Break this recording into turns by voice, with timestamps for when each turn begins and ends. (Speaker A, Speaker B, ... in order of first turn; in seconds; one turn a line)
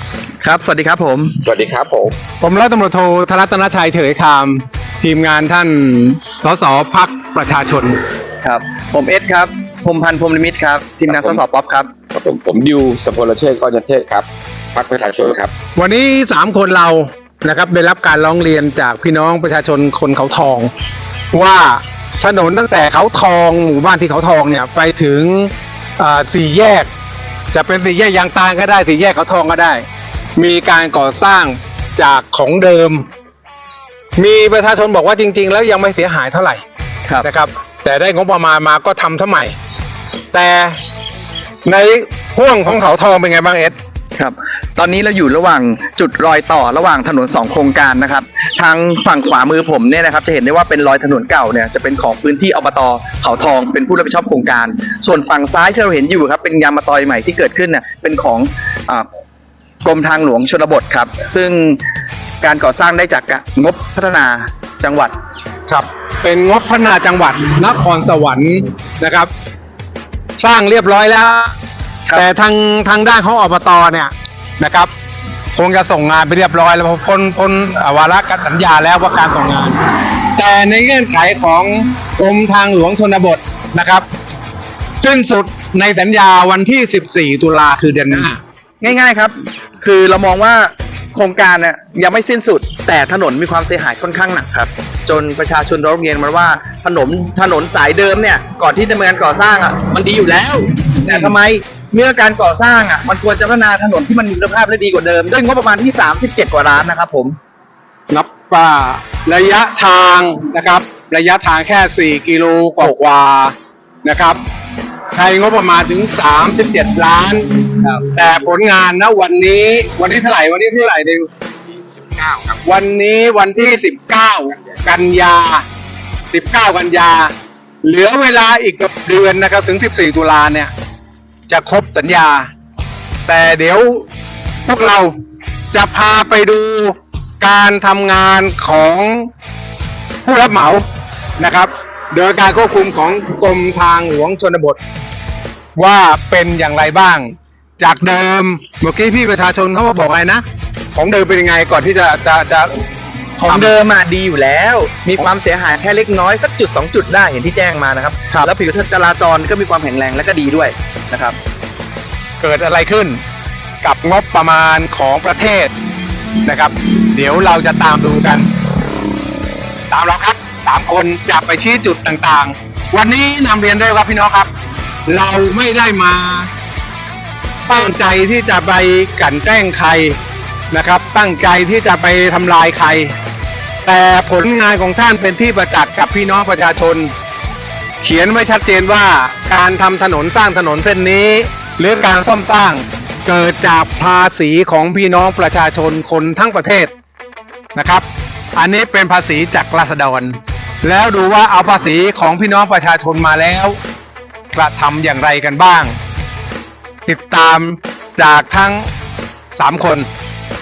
Speaker A: 0.4-1.4
Speaker B: 1.4-2.1
Speaker C: 2.4-8.0
Speaker A: 8.4-11.9
Speaker B: 11.1-11.4
Speaker B: 12.1-15.5
Speaker C: 15.8-20.7
Speaker C: 21.3-26.9
Speaker C: 27.5-29.8
Speaker C: 30.4-33.0
Speaker C: 34.2-36.6
Speaker C: 37.2-39.5
Speaker C: 40.3-40.8
Speaker C: 41.6-43.8
Speaker A: 44.2-59.1
Speaker A: 59.8-61.8
Speaker A: 62.4-65.1
Speaker C: 65.7-69.3
Speaker C: 70.4-71.5
Speaker C: 72.1-74.9
Speaker C: 75.5-79.8
Speaker C: 80.3-84.0
Speaker C: 85.0-88.4
Speaker A: 88.8-107.4
Speaker C: 101.1-101.3
Speaker C: 108.1-114.4
Speaker C: 115.1-117.5
Speaker C: 118.0-121.3
Speaker B: 121.9-122.6
Speaker C: 122.6-125.6
Speaker C: 126.3-127.3
Speaker C: 127.8-130.7
Speaker C: 131.5-132.5
Speaker C: 133.2-134.1
Speaker C: 134.7-135.1
Speaker C: 135.7-139.3
Speaker C: 140.2-140.8
Speaker C: 141.4-144.8
Speaker C: 145.8-152.7
Speaker C: 153.4-153.7
Speaker A: 153.4-161.4
Speaker C: 162.4-163.2
Speaker C: 163.8-165.7
Speaker C: 166.4-168.5
Speaker C: 169.9-174.5
Speaker C: 175.1-176.5
Speaker C: 177.7-180.2
Speaker C: 180.7-183.1
Speaker C: 183.8-187.1
Speaker C: 188.0-196.9
Speaker C: 197.8-203.8
Speaker C: 204.5-205.9
Speaker C: 207.1-208.9
Speaker C: 209.5-210.1